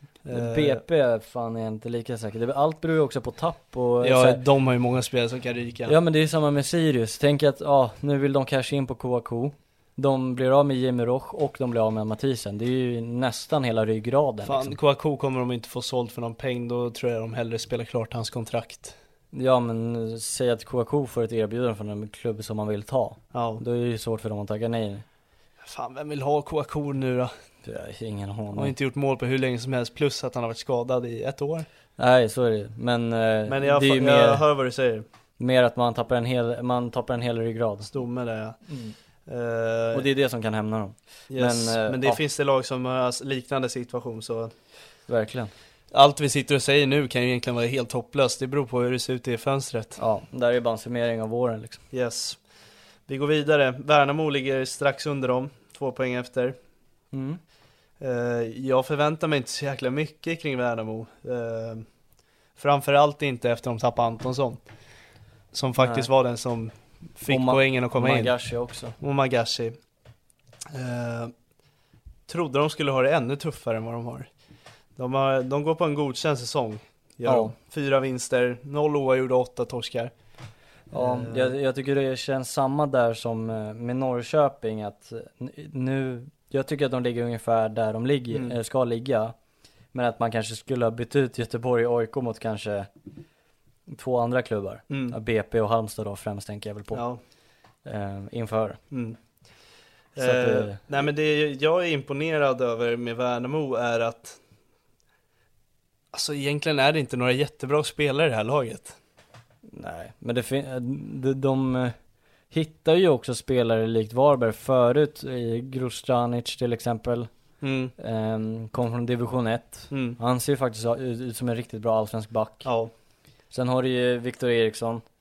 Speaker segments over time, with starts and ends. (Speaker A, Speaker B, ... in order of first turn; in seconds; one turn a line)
Speaker A: 0.2-0.8
Speaker B: 0.3-4.4
Speaker A: 4.0-6.0
Speaker B: 5.9-14.8
Speaker A: 14.4-18.9
Speaker B: 19.3-25.0
Speaker A: 23.3-23.6
Speaker A: 25.6-27.3
Speaker B: 27.6-28.7
Speaker A: 28.5-31.7
Speaker B: 32.0-34.4
Speaker A: 33.5-35.0
Speaker B: 35.4-37.9
Speaker A: 37.9-38.6
Speaker B: 38.7-38.9
Speaker A: 39.3-40.1
Speaker B: 39.9-42.2
Speaker A: 41.3-44.5
Speaker B: 45.1-45.5
Speaker A: 45.9-50.0
Speaker B: 50.0-51.8
Speaker A: 51.9-52.4
Speaker A: 53.1-56.5
Speaker B: 57.1-57.4
Speaker A: 58.0-61.8
Speaker A: 62.6-64.6
Speaker A: 65.5-68.3
Speaker B: 65.8-66.1
Speaker B: 67.3-69.0
Speaker A: 69.0-69.8
Speaker A: 70.7-71.3
Speaker A: 72.3-74.3
Speaker A: 75.0-80.1
Speaker B: 77.2-77.5
Speaker A: 80.9-81.5
Speaker B: 80.9-89.3
Speaker B: 89.9-92.9
Speaker B: 93.9-97.0
Speaker A: 94.9-95.2
Speaker A: 96.9-97.2
Speaker B: 97.8-98.8
Speaker A: 98.9-99.2
Speaker A: 100.1-104.4
Speaker B: 100.2-100.8
Speaker A: 106.1-109.0
Speaker B: 109.7-111.9
Speaker B: 112.5-117.3
Speaker A: 117.6-117.9
Speaker B: 118.0-122.7
Speaker A: 119.9-120.2
Speaker A: 122.6-122.9
Speaker B: 123.5-125.0